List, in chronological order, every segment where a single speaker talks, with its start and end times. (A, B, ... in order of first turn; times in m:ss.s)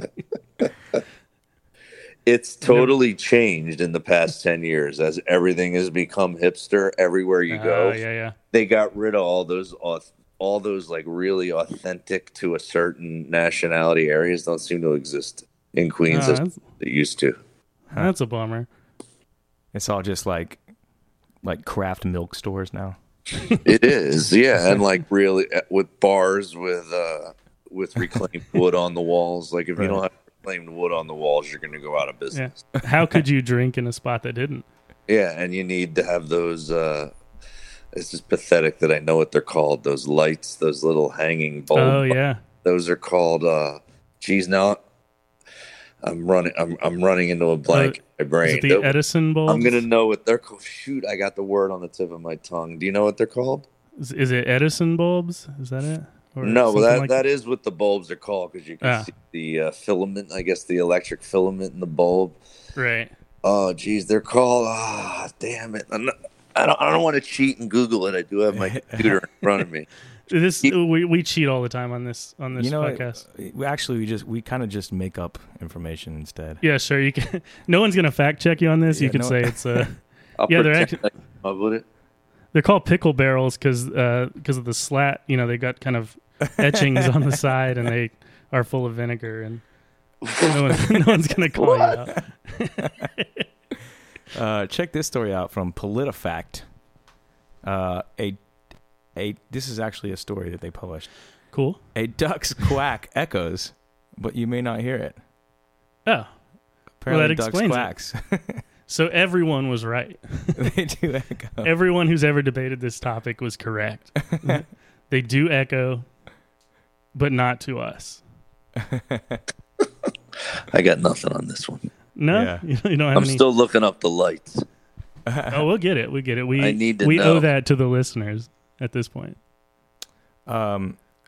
0:02.3-0:08.0 A
0:02.6-0:03.0 B
0:07.5-0:08.4 B
0:08.5-0:17.4 A
0:16.1-0:16.6 B
0:17.9-0:18.7 B
0:19.7-0:20.6 C
0:21.4-0:23.0 C
0:23.4-0:23.6 B
0:23.6-0:32.7 A
0:29.8-0:30.0 C
0:32.3-0:34.7 B
0:35.1-0:37.1 A
0:37.9-0:44.8 A
0:41.8-0:42.4 B
0:46.0-0:53.7 A
0:47.7-0:49.8 B
0:54.0-0:57.2 B
0:56.4-1:02.4 A
0:58.8-0:59.1 B
1:02.8-1:03.1 B
1:03.4-1:09.9 A
1:08.5-1:09.2 C
1:10.3-1:13.2 B
1:12.6-1:16.6 C
1:16.6-1:21.0 B
1:18.9-1:19.8 C
1:20.4-1:21.8 A
1:22.5-1:29.6 B
1:26.6-1:27.1 C
1:30.3-1:30.6 A
1:30.4-1:33.4 B
1:31.6-1:32.0 A
1:32.8-1:33.1 C
1:34.3-1:36.6 C
1:37.6-1:38.4 C
1:39.2-1:41.1 C
1:41.5-1:41.8 B
1:42.0-1:45.2 C
1:47.0-1:48.6 C
1:47.1-1:47.9 B
1:48.9-1:50.7 B
1:50.6-1:51.7 C
1:51.6-1:56.1 B
1:54.2-1:54.6 C
1:57.2-1:58.2 B
1:58.8-1:59.4 C
2:00.7-2:01.8 A
2:02.2-2:03.4 B
2:02.3-2:02.6 C
2:03.2-2:04.6 A
2:05.3-2:05.7 C
2:05.5-2:09.4 B
2:06.6-2:07.5 A
2:10.5-2:11.0 C